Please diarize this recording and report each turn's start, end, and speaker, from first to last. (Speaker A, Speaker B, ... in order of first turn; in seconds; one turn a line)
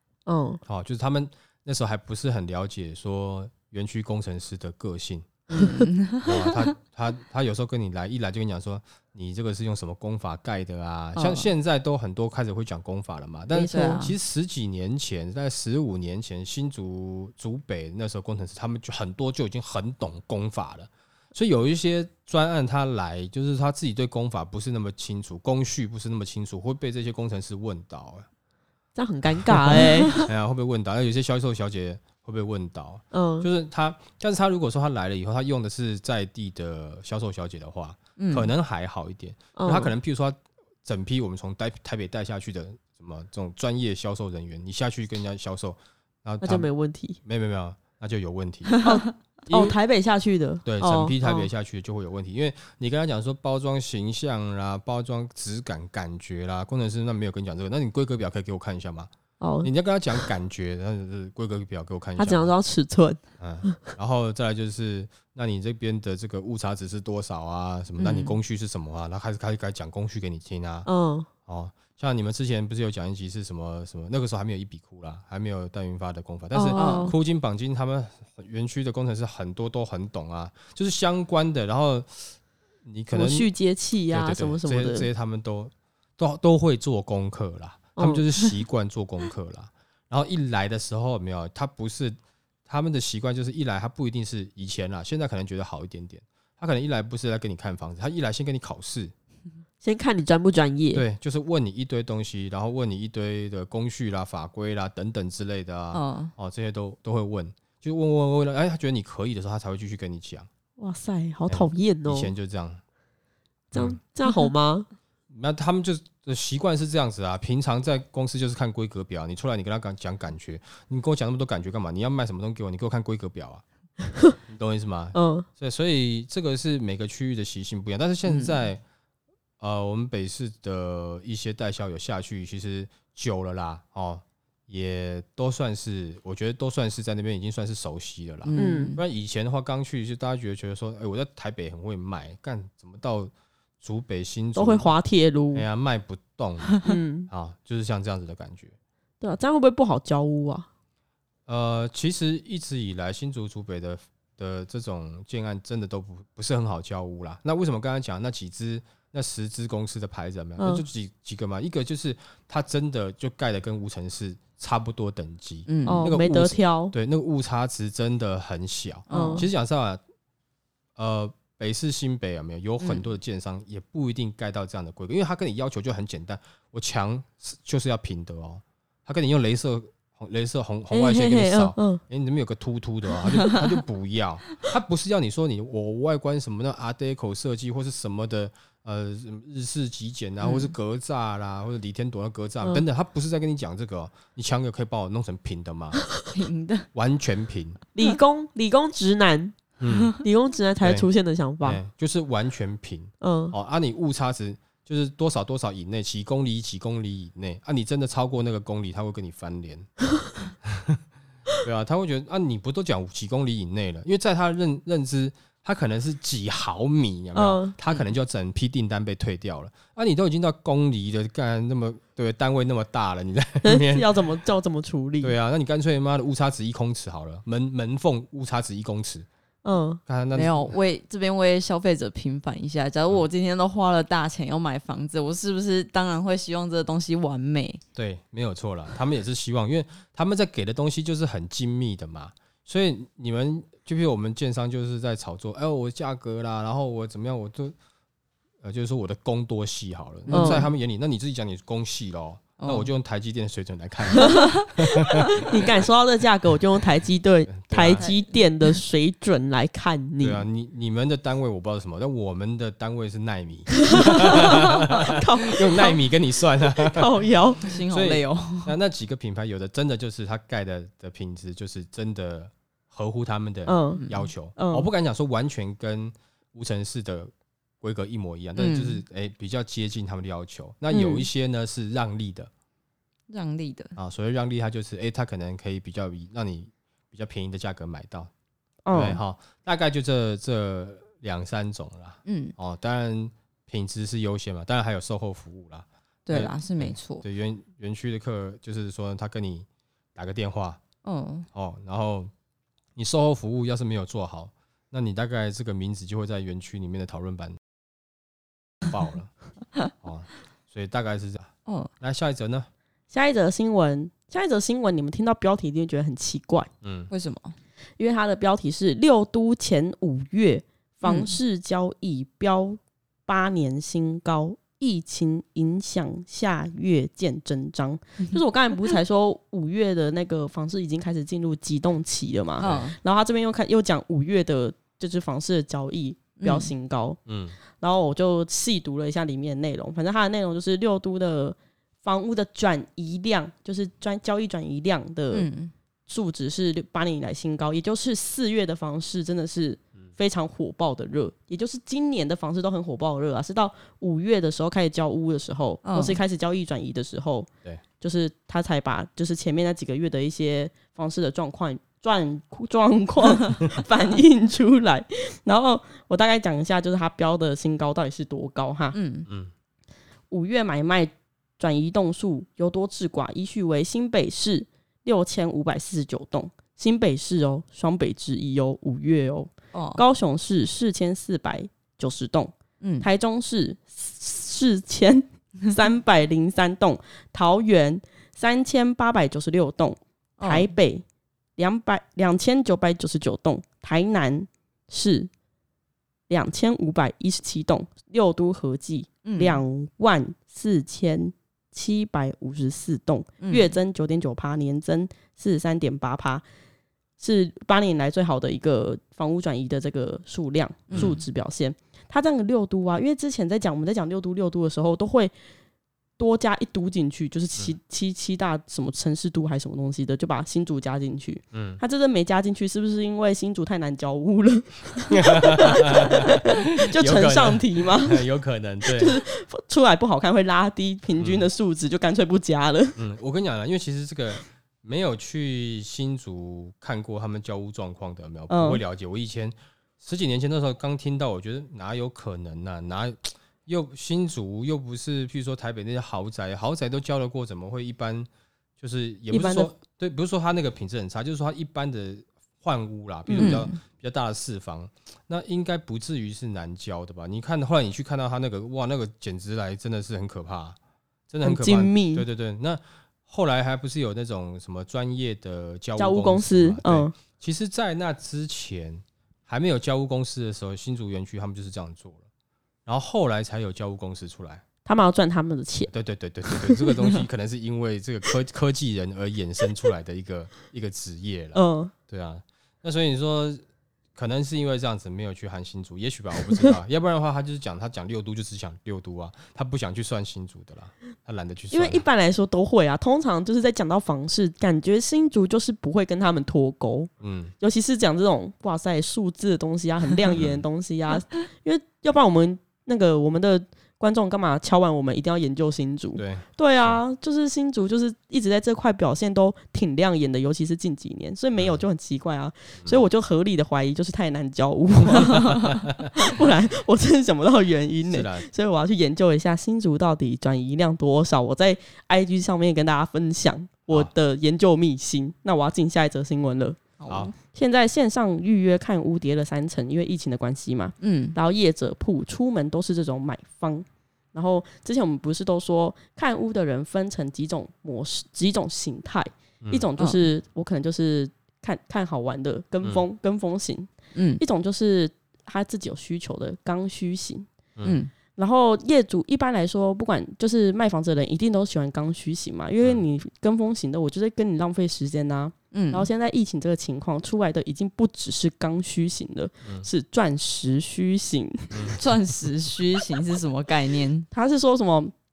Speaker A: 0.3-0.6
Speaker B: 0.7-5.6
Speaker C: 5.5-6.7
Speaker B: 6.2-28.3
Speaker C: 11.2-11.5
Speaker C: 13.5-14.1
Speaker A: 29.0-30.3
Speaker B: 29.5-46.7
Speaker A: 33.1-33.5
Speaker C: 38.2-38.5
Speaker A: 39.5-39.9
Speaker A: 46.4-47.2
Speaker B: 47.2-48.8
Speaker A: 48.8-51.5
Speaker B: 49.5-49.7
Speaker B: 50.6-59.1
Speaker A: 59.4-59.7
Speaker B: 59.6-62.5
Speaker A: 62.2-63.9
Speaker B: 63.4-70.9
Speaker C: 68.0-68.4
Speaker A: 70.8-71.3
Speaker B: 71.5-83.5
Speaker A: 76.5-77.2
Speaker C: 76.8-77.1
Speaker A: 83.1-85.1
Speaker B: 84.1-99.1
Speaker A: 88.0-88.2
Speaker A: 99.8-101.0
Speaker B: 100.9-110.5
Speaker C: 105.9-106.3
Speaker A: 110.8-112.3
Speaker B: 111.5-112.8
Speaker A: 113.7-114.9
Speaker B: 113.7-114.0
Speaker B: 115.3-123.6
Speaker B: 124.4-128.8
Speaker A: 125.1-125.5
Speaker C: 128.3-128.5
Speaker B: 129.6-144.9
Speaker C: 138.5-139.0
Speaker A: 138.6-139.0
Speaker A: 144.6-145.7
Speaker B: 145.5-148.7
Speaker A: 146.8-147.3
Speaker A: 149.2-150.7
Speaker B: 151.5-170.0
Speaker A: 160.6-160.8
Speaker C: 165.7-166.1
Speaker A: 165.9-166.9
Speaker C: 169.1-169.5
Speaker A: 169.1-169.4
Speaker B: 171.0-196.1
Speaker A: 180.9-182.0
Speaker C: 190.4-190.7
Speaker C: 196.3-196.9
Speaker B: 196.9-197.8
Speaker A: 197.9-199.6
Speaker B: 199.8-200.1
Speaker A: 200.2-201.8
Speaker B: 200.8-201.1
Speaker B: 201.6-209.9
Speaker A: 203.2-203.6
Speaker B: 210.6-211.0
Speaker B: 211.6-224.1
Speaker A: 217.3-217.8
Speaker A: 223.6-225.3
Speaker B: 225.2-229.3
Speaker A: 229.6-230.0
Speaker B: 230.1-230.7
Speaker C: 230.3-237.8
Speaker B: 238.0-247.8
Speaker B: 248.6-255.7
Speaker C: 250.3-250.7
Speaker A: 250.3-250.7
Speaker C: 252.6-252.9
Speaker A: 255.4-260.4
Speaker B: 257.5-258.0
Speaker C: 257.9-258.2
Speaker B: 260.2-267.1
Speaker A: 263.9-264.4
Speaker A: 265.0-266.0
Speaker A: 266.8-267.6
Speaker C: 267.6-268.8
Speaker B: 267.6-282.5
Speaker A: 273.7-274.0
Speaker C: 273.9-274.3
Speaker A: 274.6-274.9
Speaker C: 278.6-279.0
Speaker A: 280.9-281.3
Speaker C: 283.3-283.9
Speaker B: 284.0-288.3
Speaker A: 288.9-289.2
Speaker B: 288.9-300.8
Speaker C: 292.3-292.5
Speaker C: 296.3-297.2
Speaker C: 301.0-301.5
Speaker B: 301.5-302.3
Speaker B: 303.0-307.6
Speaker B: 308.9-309.3
Speaker B: 309.9-312.7
Speaker A: 313.1-316.7
Speaker B: 316.8-317.1
Speaker C: 317.1-317.6
Speaker A: 318.0-337.2
Speaker C: 321.1-321.3
Speaker C: 332.6-333.0
Speaker B: 332.6-332.9
Speaker C: 336.4-336.7
Speaker B: 337.3-337.6
Speaker A: 337.8-345.5
Speaker C: 345.3-345.7
Speaker A: 346.1-357.5
Speaker C: 355.9-356.2
Speaker A: 358.0-369.0
Speaker C: 368.9-369.3
Speaker A: 370.3-391.0
Speaker C: 379.7-380.0
Speaker C: 382.8-383.1
Speaker C: 390.4-390.7
Speaker A: 391.6-395.3
Speaker A: 396.3-406.4
Speaker C: 399.2-399.6
Speaker C: 403.4-403.7
Speaker A: 407.2-415.3
Speaker C: 410.9-411.2
Speaker A: 416.2-428.2
Speaker B: 421.5-421.8
Speaker B: 425.1-429.2
Speaker A: 428.8-433.0
Speaker B: 431.2-431.5
Speaker B: 433.0-448.3
Speaker A: 438.5-438.8
Speaker B: 448.8-460.8
Speaker A: 449.3-449.7
Speaker A: 453.3-453.6
Speaker C: 453.4-453.7
Speaker B: 461.3-472.2
Speaker A: 461.4-462.2
Speaker A: 466.0-467.1
Speaker B: 472.9-474.6
Speaker A: 474.9-475.9
Speaker B: 475.9-483.6
Speaker A: 476.4-476.9
Speaker A: 481.5-481.9
Speaker B: 484.1-492.0
Speaker A: 491.7-515.6
Speaker B: 497.2-497.5
Speaker B: 500.3-500.6
Speaker B: 506.2-507.0
Speaker B: 515.2-516.1
Speaker A: 516.1-547.5
Speaker B: 518.1-518.5
Speaker C: 527.0-527.3
Speaker B: 527.1-527.3
Speaker C: 531.0-531.4
Speaker C: 544.1-544.4
Speaker C: 547.9-548.1
Speaker A: 548.4-562.0
Speaker C: 555.7-556.1
Speaker B: 561.7-562.0
Speaker C: 562.0-564.3
Speaker A: 564.3-565.1